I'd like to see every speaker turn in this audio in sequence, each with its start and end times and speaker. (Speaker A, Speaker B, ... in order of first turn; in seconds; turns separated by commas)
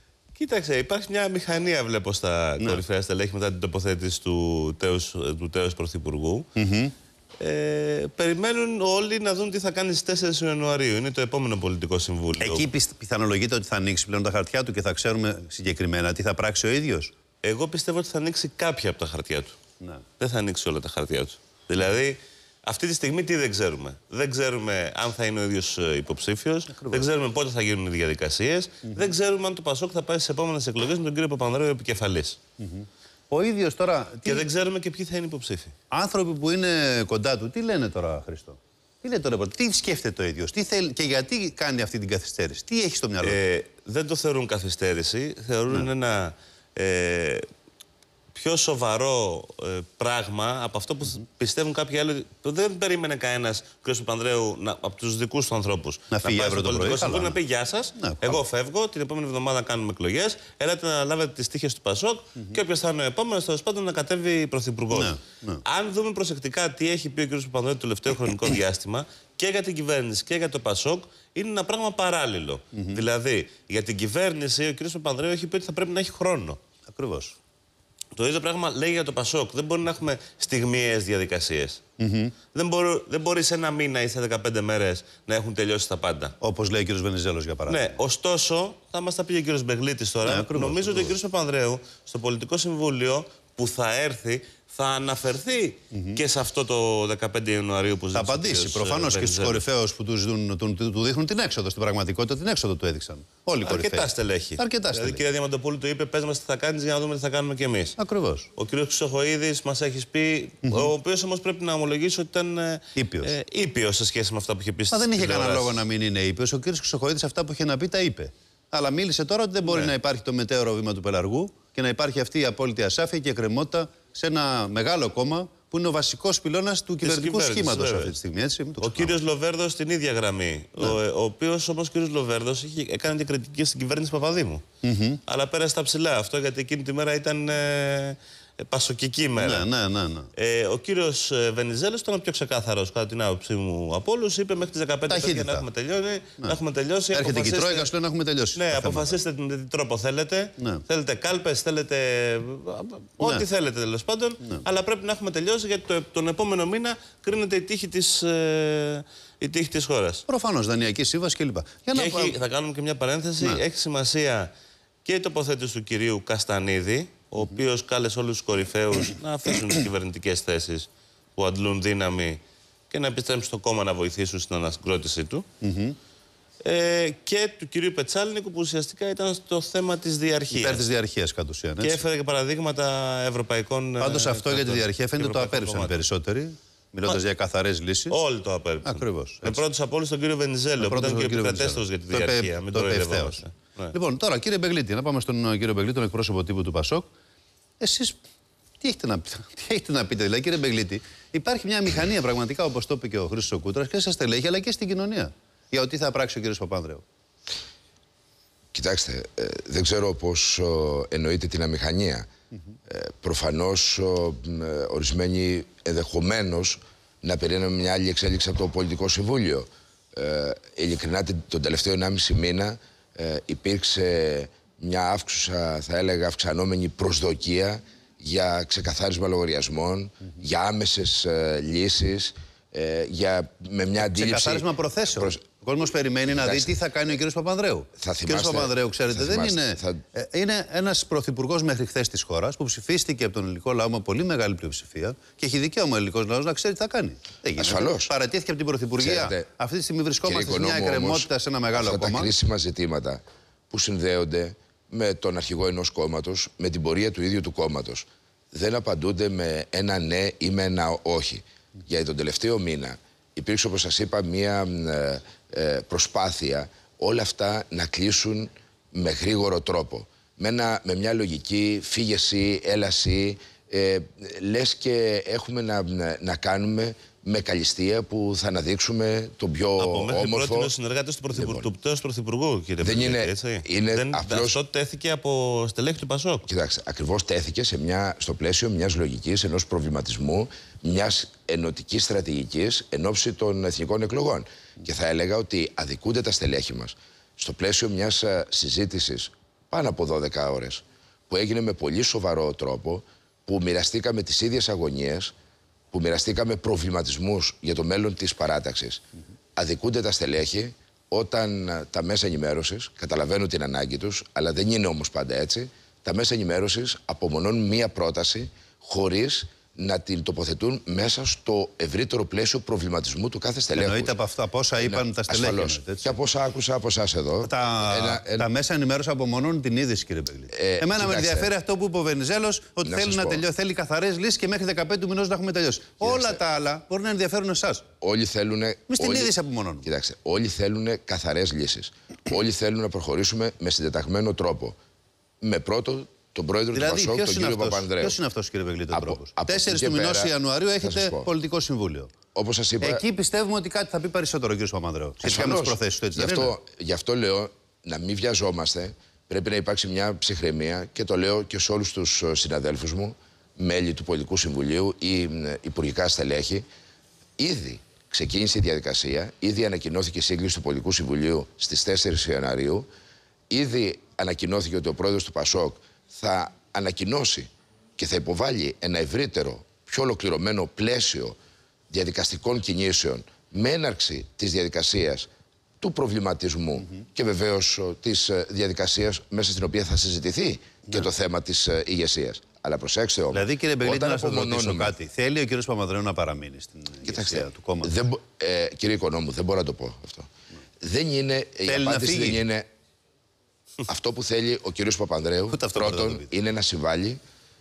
Speaker A: 0.3-6.5, Speaker B: 6.5-6.9, Speaker A: 7.4-12.7, Speaker B: 12.4-17.1, Speaker A: 17.4-19.5, Speaker A: 20.2-32.4, Speaker B: 26.7-27.1, Speaker B: 32.6-34.5, Speaker A: 34.2-35.7, Speaker B: 35.9-43.4, Speaker A: 43.2-47.5, Speaker A: 48.3-76.6, Speaker B: 56.1-57.4, Speaker B: 58.0-58.4, Speaker B: 64.9-65.6, Speaker B: 76.9-77.4, Speaker A: 78.1-81.8, Speaker B: 82.0-82.3, Speaker A: 82.5-86.3, Speaker B: 86.4-87.9, Speaker A: 87.7-99.7, Speaker B: 90.2-91.1, Speaker B: 95.9-96.2, Speaker B: 98.1-105.2, Speaker A: 103.6-108.0, Speaker B: 108.0-108.5, Speaker A: 108.5-115.8, Speaker B: 110.6-110.9, Speaker B: 113.0-113.3, Speaker B: 114.9-129.1, Speaker A: 119.7-119.9, Speaker A: 127.0-128.1, Speaker A: 128.8-134.6, Speaker B: 134.8-135.2, Speaker A: 135.2-139.7, Speaker B: 139.4-140.3, Speaker A: 140.3-147.9, Speaker B: 145.1-145.7, Speaker B: 147.1-149.2, Speaker A: 148.5-160.2, Speaker B: 160.3-162.4, Speaker A: 161.9-164.5, Speaker A: 165.0-175.4, Speaker B: 175.6-176.0, Speaker A: 176.6-180.8, Speaker B: 180.5-182.0, Speaker A: 181.8-186.0, Speaker B: 184.0-188.2, Speaker A: 188.1-193.9, Speaker B: 188.8-189.6, Speaker B: 190.8-197.1, Speaker B: 197.8-198.2, Speaker B: 198.8-207.0, Speaker C: 208.7-212.3, Speaker C: 212.9-235.4, Speaker B: 234.0-252.3, Speaker C: 236.3-236.8, Speaker C: 238.0-240.0, Speaker C: 247.6-248.1, Speaker C: 249.0-249.5, Speaker C: 250.2-280.7, Speaker A: 279.8-286.5, Speaker C: 281.3-281.7, Speaker C: 282.8-284.6, Speaker C: 286.5-305.3, Speaker C: 305.9-309.0, Speaker C: 309.6-324.1, Speaker B: 323.8-326.2, Speaker C: 324.8-328.5, Speaker B: 327.4-337.8, Speaker C: 330.5-331.5, Speaker C: 332.8-333.4, Speaker C: 336.0-336.4, Speaker C: 338.0-344.8, Speaker B: 338.9-339.9, Speaker C: 345.4-348.2, Speaker B: 346.7-352.1, Speaker C: 348.9-351.3, Speaker C: 352.3-353.0, Speaker B: 352.8-356.5, Speaker C: 355.2-366.6, Speaker C: 367.4-372.9, Speaker C: 373.5-381.4, Speaker C: 381.9-394.9, Speaker B: 393.3-398.0, Speaker C: 397.0-400.3, Speaker C: 400.8-402.6, Speaker B: 401.7-402.4, Speaker C: 403.9-407.2, Speaker B: 405.5-406.3